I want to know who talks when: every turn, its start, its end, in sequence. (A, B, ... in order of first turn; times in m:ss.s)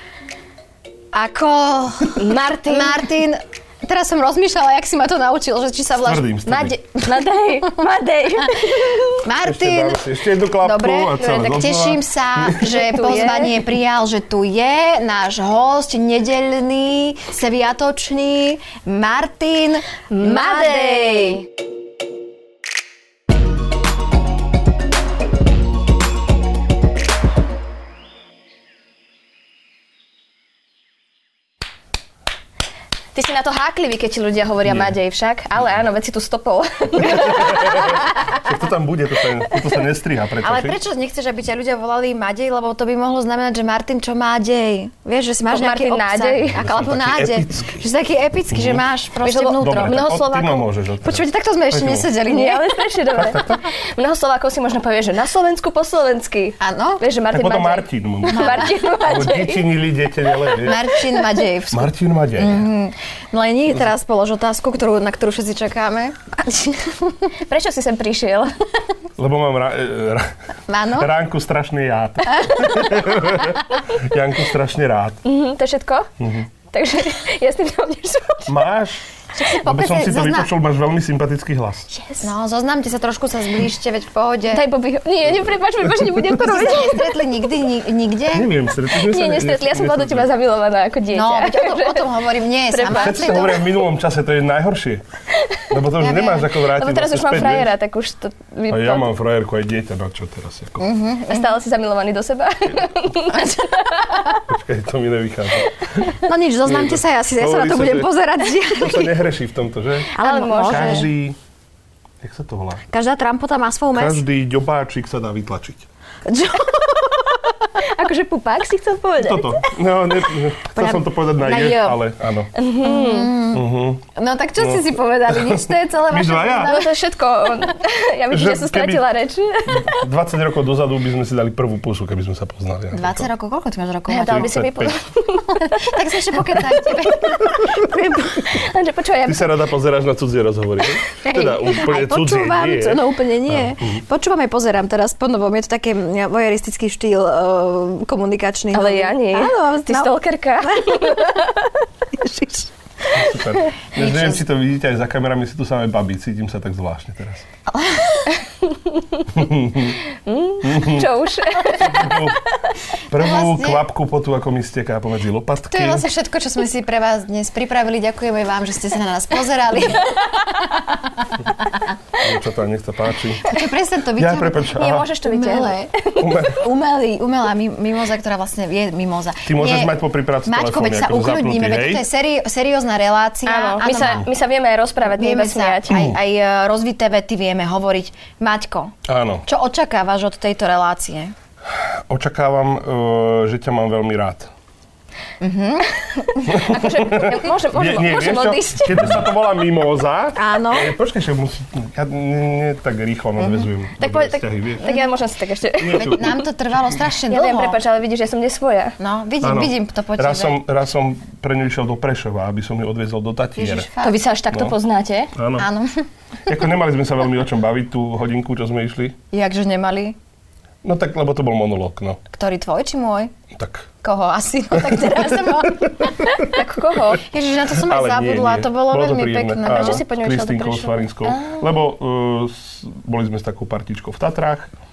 0:01.1-0:06.3 A
0:02.2-0:03.0 B
0:06.0-0:06.8 C
0:06.4-0:09.2 B
0:08.4-0:21.4 A
0:09.4-0:12.8 C
0:12.7-0:13.6 B
0:20.1-0:21.4 B
0:33.1-0:38.1 B
0:34.6-0:34.9 C
0:37.0-0:40.8 C
0:40.4-0:50.1 A
0:45.5-0:46.6 B
0:46.4-0:47.9 C
0:48.5-0:48.8 C
0:49.2-0:50.6 B
0:49.6-0:52.1 C
0:51.0-0:53.0 A
0:52.2-0:59.6 B
0:53.1-0:53.6 C
0:56.6-0:57.0 A
0:57.3-1:00.8 C
0:58.3-0:58.7 A
1:00.6-1:07.3 A
1:01.7-1:02.7 C
1:07.5-1:08.5 B
1:09.2-1:10.3 C
1:10.7-1:11.1 A
1:10.9-1:15.2 C
1:12.4-1:13.6 A
1:15.2-1:16.1 B
1:16.2-1:16.5 C
1:16.7-1:18.6 B
1:18.5-1:19.0 C
1:19.3-1:20.5 A
1:19.6-1:21.9 C
1:21.9-1:22.3 B
1:22.2-1:24.6 A
1:24.5-1:27.2 B
1:26.2-1:28.5 A
1:28.3-1:30.3 C
1:28.9-1:32.2 B
1:31.1-1:33.6 A
1:32.7-1:33.6 B
1:32.9-1:35.0 C
1:35.3-1:35.7 B
1:35.7-1:37.7 C
1:36.0-1:36.5 A
1:36.7-1:39.1 B
1:38.7-1:40.9 C
1:40.8-1:41.5 A
1:41.3-1:44.3 B
1:44.5-1:46.1 C
1:46.2-1:49.2 A
1:46.6-1:48.1 C
1:48.6-1:51.4 C
1:50.1-1:51.1 B
1:50.2-1:51.1 A
1:52.2-1:52.8 C
1:52.9-1:54.2 A
1:53.9-1:55.8 C
1:56.3-1:57.5 A
1:57.8-1:59.6 B
1:59.2-2:02.5 C
2:00.7-2:02.0 A
2:02.6-2:03.3 B
2:02.8-2:06.9 A
2:03.5-2:04.0 C
2:04.6-2:06.8 C
2:06.6-2:10.0 B
2:08.3-2:09.1 C
2:09.6-2:13.3 C
2:12.9-2:14.6 A
2:14.1-2:16.0 B
2:14.2-2:15.0 C
2:15.6-2:18.5 A
2:18.5-2:19.6 B
2:19.2-2:24.0 C
2:21.2-2:31.5 A
2:28.7-2:31.5 B
2:32.1-2:32.7 A
2:33.1-2:37.4 C
2:33.9-2:34.4 A
2:37.7-2:38.4 A
2:38.9-2:39.2 B
2:39.3-2:40.0 C
2:40.1-2:42.4 B
2:40.6-2:41.1 C
2:41.8-2:42.4 C
2:43.1-2:46.1 C
2:43.1-2:43.8 A
2:45.7-2:51.8 A
2:52.2-2:53.5 C
2:53.4-2:55.9 A
2:54.1-2:55.1 C
2:54.7-2:56.5 B
2:56.2-2:56.6 C
2:56.5-3:04.2 A
2:59.4-3:02.0 C
3:03.4-3:06.0 B
3:05.2-3:08.9 A
3:05.9-3:06.2 C
3:09.0-3:09.4 C
3:09.4-3:11.3 A
3:11.7-3:14.5 C
3:15.4-3:16.7 A
3:16.4-3:19.2 B
3:16.5-3:24.8 C
3:20.3-3:20.9 A
3:23.4-3:23.7 A
3:24.0-3:26.4 B
3:25.8-3:26.4 C
3:26.0-3:27.8 A
3:27.3-3:29.0 B
3:29.0-3:30.6 A
3:29.4-3:33.9 C
3:33.6-3:34.2 A
3:34.0-3:35.3 B
3:34.5-3:34.8 C
3:35.3-3:35.7 C
3:35.6-3:36.0 A
3:36.4-3:39.2 C
3:39.3-3:40.2 A
3:40.8-3:42.2 C
3:42.3-3:43.3 A
3:43.5-3:43.9 C
3:44.0-3:50.0 A
3:46.5-3:47.2 B
3:47.7-3:54.7 C
3:49.6-3:51.7 B